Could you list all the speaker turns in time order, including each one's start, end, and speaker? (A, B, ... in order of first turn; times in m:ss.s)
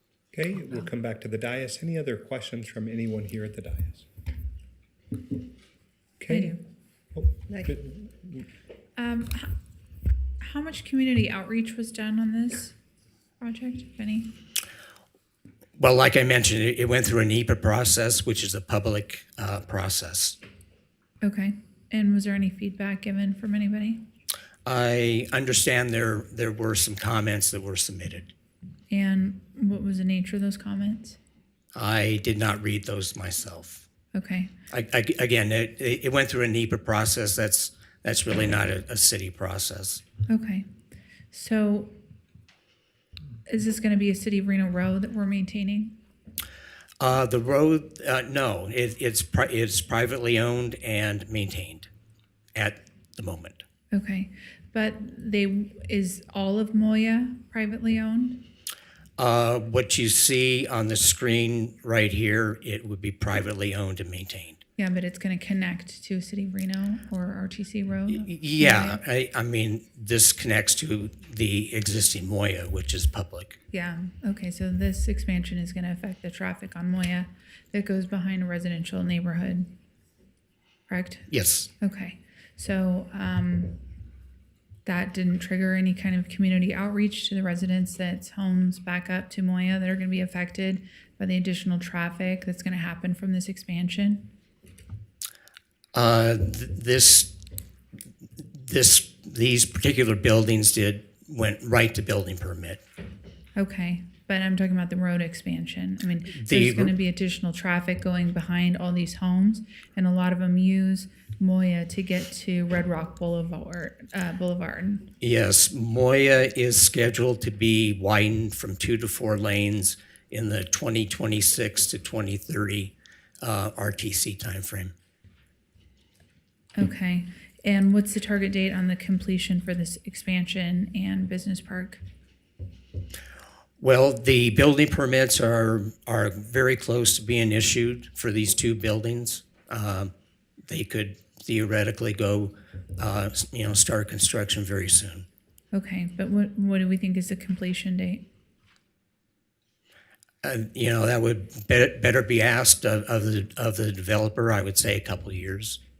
0:00.3-0:04.1 A
0:06.2-0:06.6 A
0:06.3-0:06.6 B
0:07.1-0:08.5 A
0:09.0-0:09.5 B
0:10.4-0:12.7 B
0:13.4-0:14.3 B
0:15.8-0:20.4 C
0:21.2-0:24.0 B
0:24.6-0:28.3 C
0:28.9-0:31.2 B
0:31.7-0:33.8 C
0:34.1-0:34.5 B
0:34.7-0:40.0 C
0:40.3-0:40.6 B
0:41.3-0:41.9 B
0:43.4-0:45.9 B
0:47.0-0:51.9 C
0:52.5-0:53.6 C
0:53.9-0:58.4 B
0:59.2-1:04.6 C
1:04.8-1:09.0 B
1:08.1-1:13.6 C
1:13.7-1:19.7 B
1:20.9-1:21.3 B
1:21.3-1:21.7 C
1:21.8-1:23.8 B
1:24.8-1:34.3 B
1:35.9-1:37.3 C
1:38.5-1:42.8 C
1:43.6-1:55.1 B
1:46.3-1:46.9 C
1:55.2-2:04.9 C
2:06.8-2:12.0 B
2:13.8-2:20.1 C
2:20.7-2:25.2 C
2:25.7-2:28.3 B
2:30.4-2:35.8 C